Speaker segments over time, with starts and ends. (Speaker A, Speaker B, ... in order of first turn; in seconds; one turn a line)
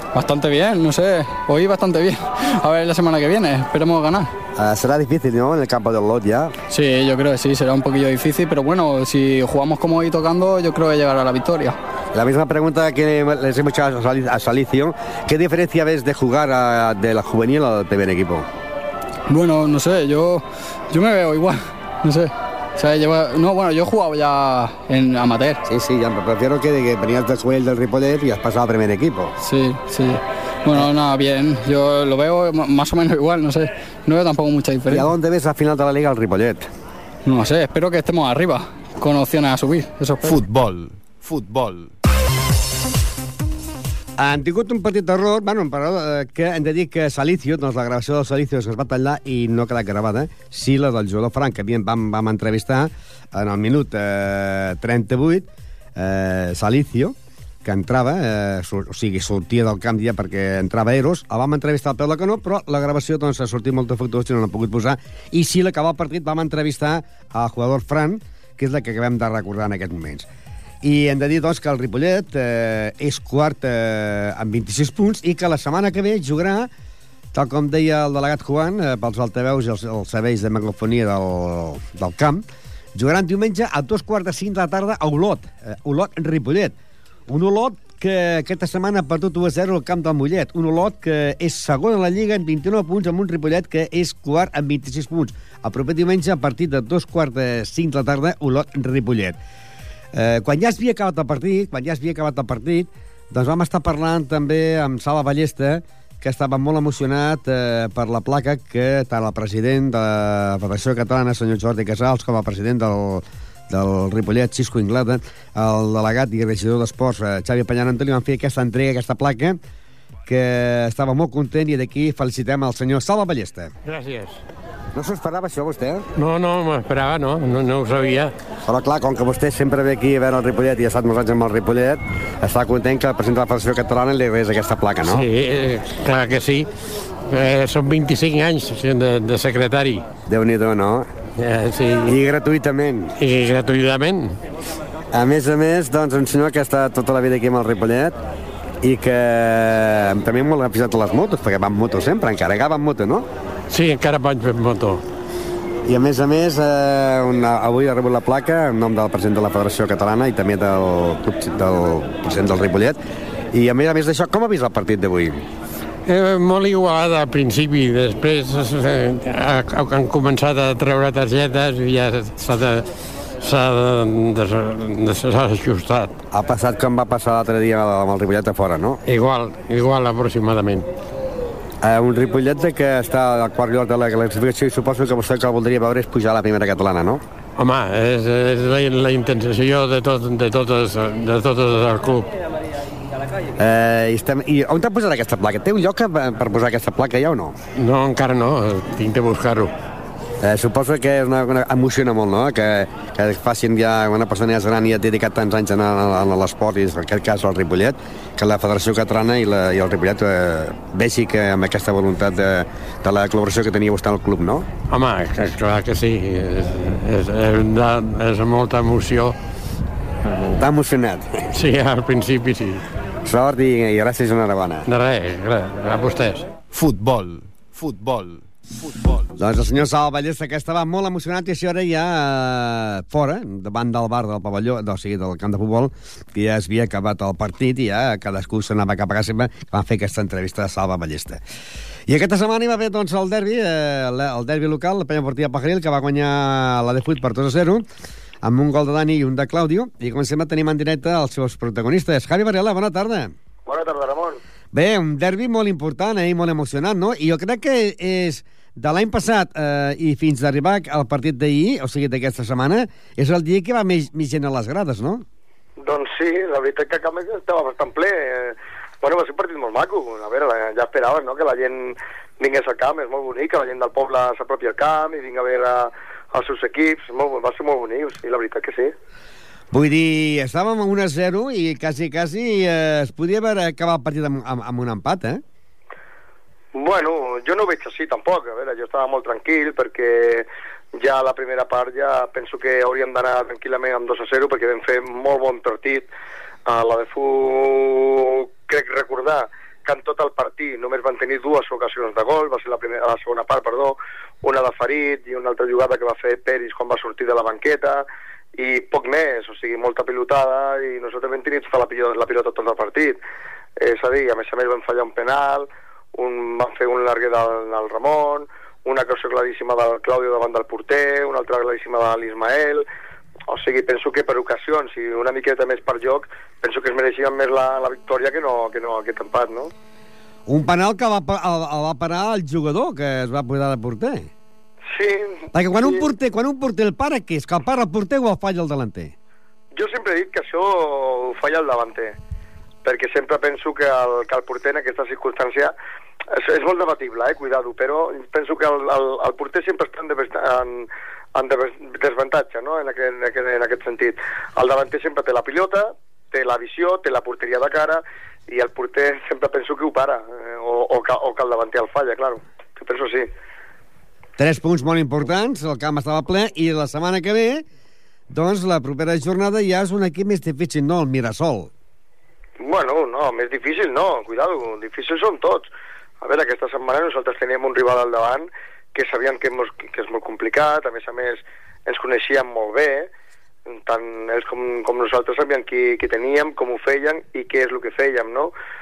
Speaker A: 0.1-4.3
Speaker B: 4.5-6.5
Speaker A: 6.7-11.8
Speaker B: 12.1-18.5
Speaker A: 19.3-25.6
Speaker B: 25.6-29.3
Speaker A: 29.4-35.1
Speaker B: 34.9-36.7
Speaker A: 37.2-40.4
Speaker C: 40.2-41.9
Speaker B: 44.2-70.3
Speaker B: 70.8-76.7
Speaker B: 77.3-82.4
Speaker B: 82.9-86.8
Speaker B: 87.3-99.4
Speaker B: 100.1-119.6
Speaker B: 120.2-123.7
Speaker D: 123.8-124.4
Speaker B: 124.9-126.0
Speaker D: 126.2-128.3
Speaker B: 128.7-135.2
Speaker D: 135.1-136.7
Speaker D: 137.3-140.0
Speaker B: 140.3-141.1
Speaker D: 141.4-142.2
Speaker B: 142.0-143.1
Speaker D: 143.2-144.3
Speaker B: 145.1-148.1
Speaker B: 148.8-153.3
Speaker D: 153.7-155.0
Speaker B: 155.8-163.0
Speaker B: 163.5-165.4
Speaker D: 166.1-172.9
Speaker D: 173.4-176.1
Speaker B: 176.3-179.0
Speaker D: 179.1-180.9
Speaker B: 181.8-187.2
Speaker D: 187.6-192.3
Speaker B: 193.6-197.6
Speaker D: 197.8-199.7
Speaker B: 200.4-214.7
Speaker D: 214.9-219.3
Speaker B: 220.5-221.5
Speaker D: 221.5-222.8
Speaker B: 223.2-224.9
Speaker D: 224.8-226.5
Speaker C: 226.7-229.3
Speaker B: 229.4-241.4
Speaker B: 242.1-247.8
Speaker B: 248.4-253.3
Speaker E: 253.7-254.4
Speaker B: 254.7-265.2
Speaker E: 265.8-278.9
Speaker B: 279.7-285.4
Speaker E: 286.7-296.1
Speaker E: 296.6-313.2
Speaker E: 313.8-322.9
Speaker E: 323.5-329.7
Speaker B: 330.5-334.3
Speaker E: 334.9-336.1
Speaker B: 335.5-339.1
Speaker E: 339.7-342.2
Speaker E: 342.8-345.7
Speaker E: 346.3-363.3
Speaker B: 364.4-367.6
Speaker B: 368.3-371.7
Speaker E: 372.6-375.7
Speaker E: 376.2-383.1
Speaker E: 383.7-388.5